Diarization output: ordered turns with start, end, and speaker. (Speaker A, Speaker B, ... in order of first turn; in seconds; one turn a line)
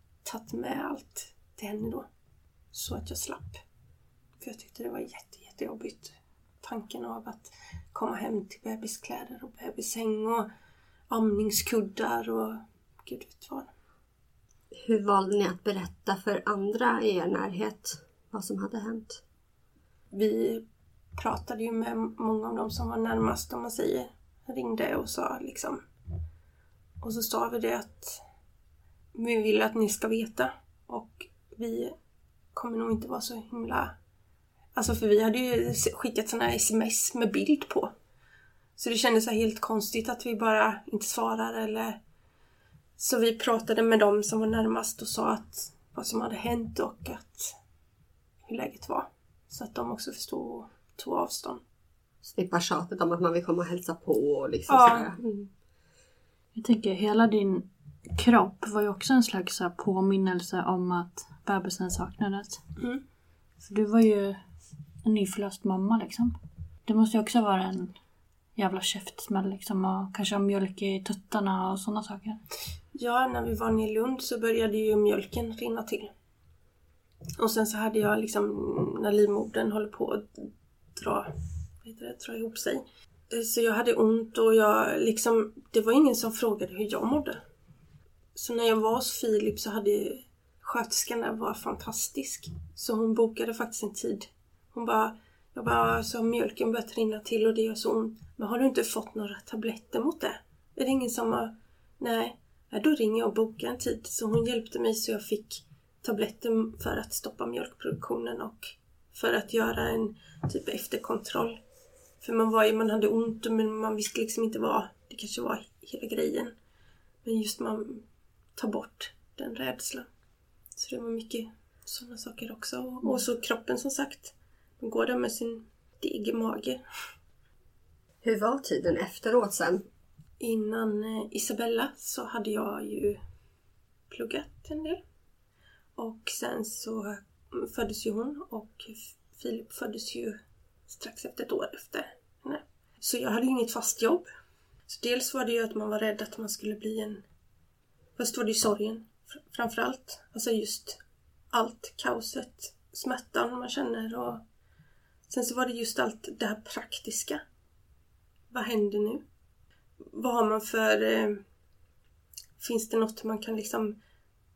Speaker A: 0.2-2.1
Speaker A: 2.7-3.6
Speaker A: 4.4-10.5
Speaker A: 11.1-13.7
Speaker B: 14.7-19.2
Speaker A: 20.1-20.6
Speaker A: 21.2-25.8
Speaker A: 27.0-28.2
Speaker A: 29.1-31.9
Speaker A: 32.5-33.9
Speaker A: 34.8-37.9
Speaker A: 38.8-42.0
Speaker A: 43.0-47.5
Speaker A: 48.5-51.6
Speaker B: 52.2-55.5
Speaker A: 54.7-55.1
Speaker C: 56.5-62.6
Speaker C: 63.6-64.4
Speaker C: 65.0-68.0
Speaker C: 68.6-72.4
Speaker A: 73.0-76.1
Speaker A: 77.4-81.3
Speaker A: 81.8-87.4
Speaker A: 88.3-111.6
Speaker A: 112.2-116.5
Speaker A: 117.2-118.0
Speaker A: 118.6-120.1
Speaker A: 120.8-126.8
Speaker B: 128.2-129.8
Speaker A: 130.4-133.2
Speaker A: 134.1-135.0
Speaker A: 136.0-140.4
Speaker A: 140.9-144.3
Speaker A: 144.9-147.2
Speaker A: 148.2-151.0
Speaker A: 151.5-154.4
Speaker A: 155.3-157.4
Speaker A: 158.5-159.2
Speaker A: 160.1-161.4
Speaker A: 162.6-163.9